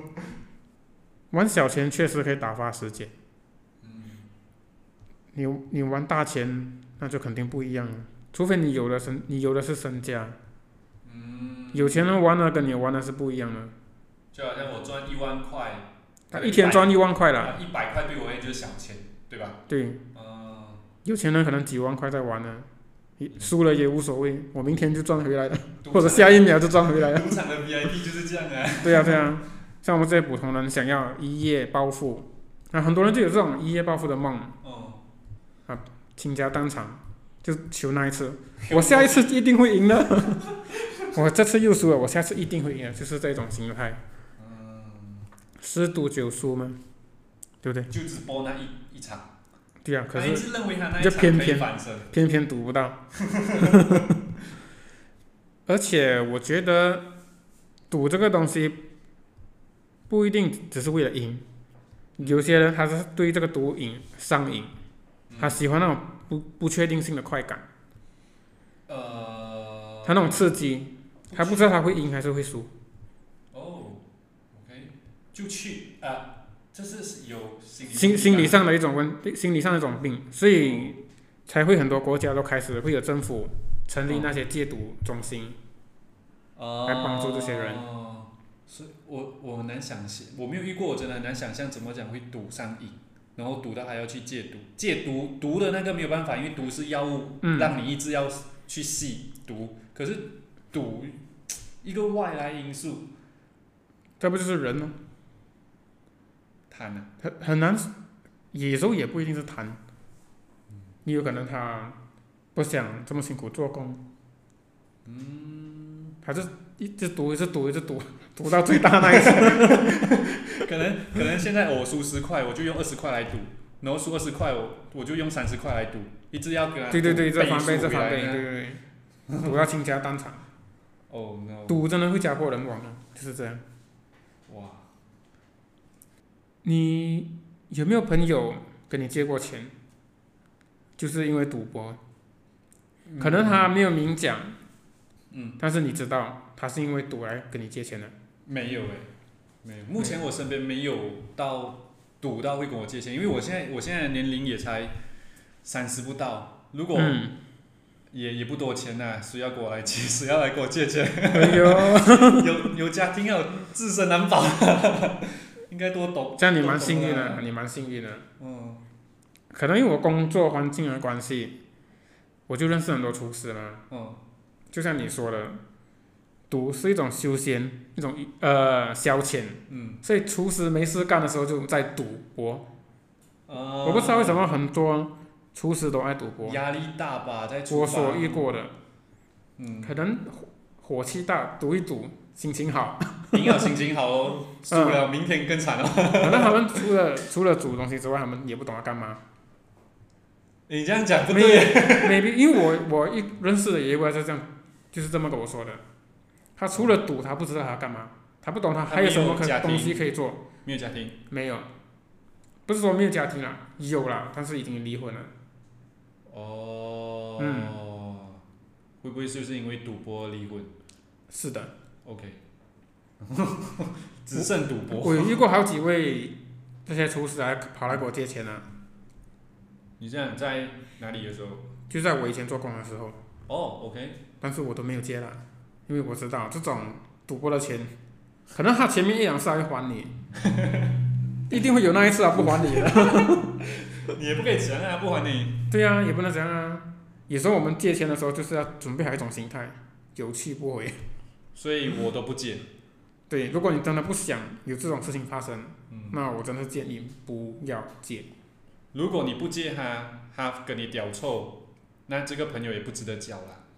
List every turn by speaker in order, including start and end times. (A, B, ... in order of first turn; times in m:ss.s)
0:01.3-0:03.1 A
0:03.8-0:04.3 B
0:05.3-0:10.4 A
0:11.0-0:12.2 B
0:11.7-0:13.7 A
0:14.3-0:19.6 B
0:16.3-0:17.6 A
0:19.7-0:20.0 A
0:20.1-0:20.8 B
0:21.0-0:22.7 A
0:23.2-0:27.3 A
0:25.8-0:29.3 B
0:28.8-0:34.6 A
0:34.6-0:35.0 B
0:35.7-0:40.5 A
0:38.6-0:39.3 B
0:40.7-0:41.1 B
0:41.1-0:44.0 A
0:44.4-0:45.3 B
0:45.6-0:46.8 A
0:47.6-0:47.9 A
0:47.9-0:49.3 B
0:49.8-0:53.0 A
0:50.1-0:52.1 B
0:53.2-0:54.1 B
0:53.6-0:54.1 A
0:55.7-0:57.1 A
0:57.9-0:58.8 A
1:00.1-1:01.4 A
1:02.2-1:04.7 A
1:05.3-1:05.6 B
1:05.4-1:07.6 A
1:08.9-1:10.5 B
1:10.0-1:12.7 A
1:11.3-1:11.7 B
1:13.5-1:18.6 B
1:17.9-1:25.6 A
1:24.1-1:24.3 B
1:26.6-1:41.2 B
1:26.9-1:27.8 A
1:37.4-1:37.8 A
1:41.8-1:43.1 B
1:44.2-1:45.0 A
1:46.7-1:47.1 B
1:47.2-1:47.9 A
1:48.5-1:49.8 A
1:51.0-1:52.0 A
1:52.6-1:54.0 A
1:55.0-1:56.2 B
1:56.2-2:00.1 A
1:58.9-2:08.4 B
2:06.9-2:08.8 A
2:09.3-2:09.6 B
2:09.4-2:10.4 A
2:11.1-2:11.8 B
2:11.7-2:13.6 A
2:14.5-2:14.9 B
2:16.6-2:19.7 A
2:21.0-2:22.0 A
2:23.1-2:23.7 B
2:23.2-2:24.6 A
2:25.3-2:25.6 B
2:25.6-2:28.2 A
2:28.5-2:29.1 B
2:29.6-2:34.9 B
2:35.6-2:37.2 B
2:37.0-2:37.4 A
2:38.1-2:47.4 B
2:41.3-2:42.7 A
2:46.4-2:48.2 A
2:48.4-2:48.8 B
2:49.5-2:51.6 A
2:52.5-2:53.8 A
2:53.9-2:54.2 B
2:54.7-2:55.6 A
2:56.5-3:02.7 A
2:59.7-3:00.0 B
3:03.5-3:04.4 B
3:03.8-3:06.6 A
3:06.4-3:08.5 B
3:07.7-3:08.7 A
3:09.6-3:09.9 B
3:09.8-3:13.7 A
3:13.3-3:16.9 B
3:14.7-3:15.1 A
3:16.2-3:19.2 A
3:20.7-3:22.3 B
3:21.3-3:25.8 A
3:26.6-3:30.4 A
3:28.9-3:30.1 B
3:30.6-3:31.2 B
3:31.3-3:31.7 A
3:32.7-3:35.3 A
3:36.3-3:38.4 B
3:37.4-3:37.8 A
3:39.0-3:40.7 B
3:41.3-3:41.7 A
3:42.0-3:42.4 B
3:43.2-3:45.4 B
3:44.4-3:48.6 A
3:50.0-3:51.6 B
3:51.9-3:53.2 A
3:53.5-3:54.2 B
3:54.4-3:57.9 A
3:58.5-4:00.1 A
4:00.4-4:01.0 B
4:01.5-4:03.5 A
4:02.5-4:05.6 B
4:05.7-4:11.0 A
4:11.6-4:12.6 B
4:13.3-4:18.3 A
4:15.9-4:16.2 B
4:18.9-4:23.6 B